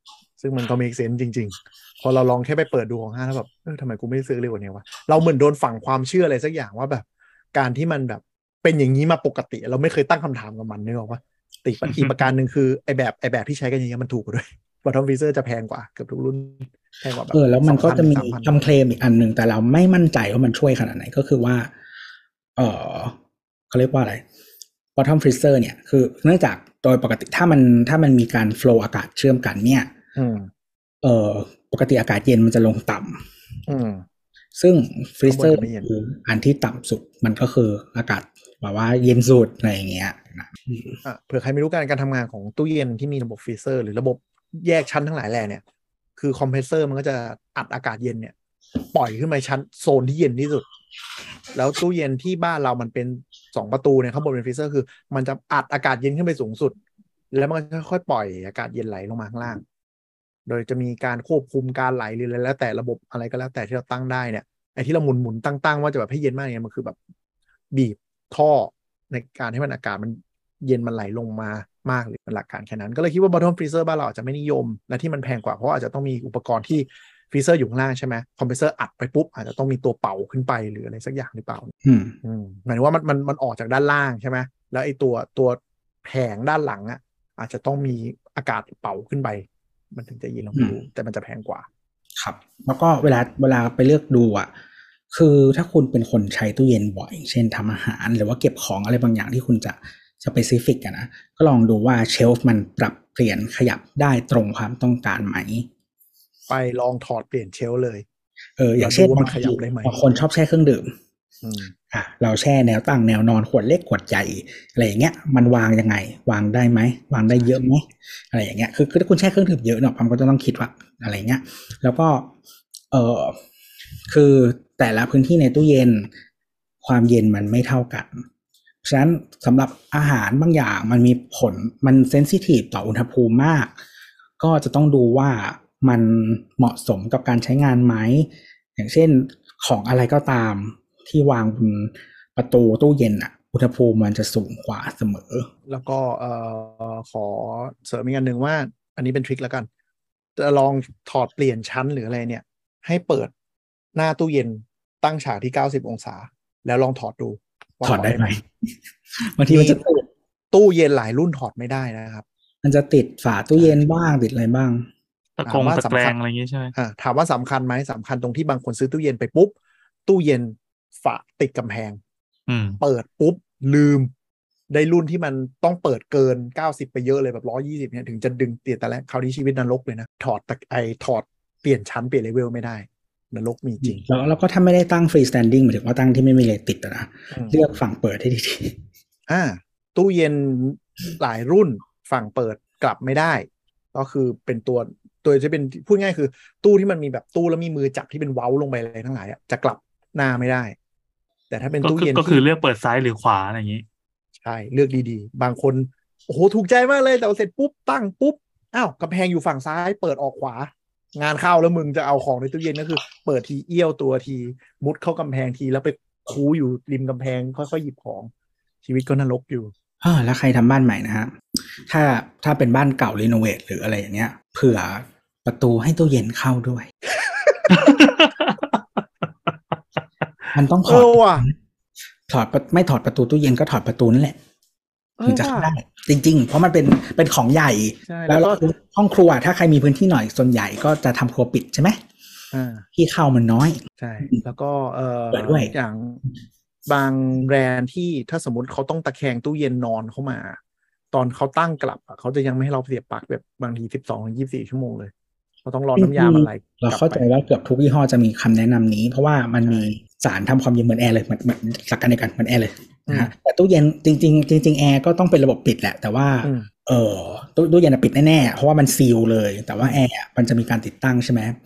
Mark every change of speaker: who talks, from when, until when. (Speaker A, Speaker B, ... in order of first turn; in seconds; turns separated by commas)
Speaker A: 0.4-18.6, Speaker B: 17.3-21.7, Speaker B: 22.6-23.1, Speaker B: 23.7-24.2, Speaker B: 24.9-29.9, Speaker A: 30.1-30.5, Speaker B: 31.0-33.2, Speaker A: 33.7-34.0, Speaker B: 34.5-41.0, Speaker A: 35.2-35.9, Speaker A: 41.0-45.6, Speaker A: 46.2-48.3, Speaker A: 48.9-50.7, Speaker A: 51.5-56.8, Speaker A: 57.3-59.6, Speaker A: 60.5-67.0, Speaker A: 67.7-81.7, Speaker B: 81.8-82.2, Speaker A: 82.2-91.7, Speaker B: 92.2-94.5, Speaker B: 95.1-105.7, Speaker A: 106.5-108.0, Speaker B: 108.6-110.9, Speaker A: 108.8-110.0, Speaker A: 111.4-111.7, Speaker B: 111.9-122.3, Speaker B: 122.9-123.4, Speaker B: 124.1-126.1, Speaker B: 126.8-128.2, Speaker B: 128.8-133.7, Speaker B: 134.4-145.5, Speaker A: 145.7-149.7, Speaker A: 150.4-153.3, Speaker A: 153.9-158.4, Speaker B: 157.8-158.4, Speaker B: 159.2-160.1, Speaker A: 159.5-159.8, Speaker A: 160.5-162.2, Speaker B: 162.6-164.9, Speaker C: 165.4-166.7, Speaker A: 165.4-166.1, Speaker A: 166.7-169.5, Speaker A: 170.1-172.0, Speaker C: 172.5-172.8, Speaker A: 172.8-174.1, Speaker A: 174.7-184.0, Speaker B: 183.8-188.8, Speaker A: 187.3-187.7, Speaker A: 189.3-200.8, Speaker A: 201.5-202.4, Speaker C: 201.8-203.8, Speaker A: 204.4-218.3, Speaker A: 218.8-219.7, Speaker B: 220.0-226.9, Speaker A: 227.2-227.9, Speaker C: 227.7-228.6, Speaker B: 230.5-231.5, Speaker A: 230.8-231.5, Speaker B: 232.3-234.4, Speaker A: 235.2-235.7, Speaker B: 235.2-242.0, Speaker A: 238.1-238.6, Speaker A: 242.5-242.9, Speaker B: 242.9-244.4, Speaker A: 244.0-246.2, Speaker B: 245.3-245.7, Speaker A: 246.8-250.6, Speaker A: 251.1-255.1, Speaker A: 255.6-257.2, Speaker B: 255.9-271.6, Speaker A: 259.6-259.9, Speaker A: 263.1-263.3, Speaker A: 266.4-266.7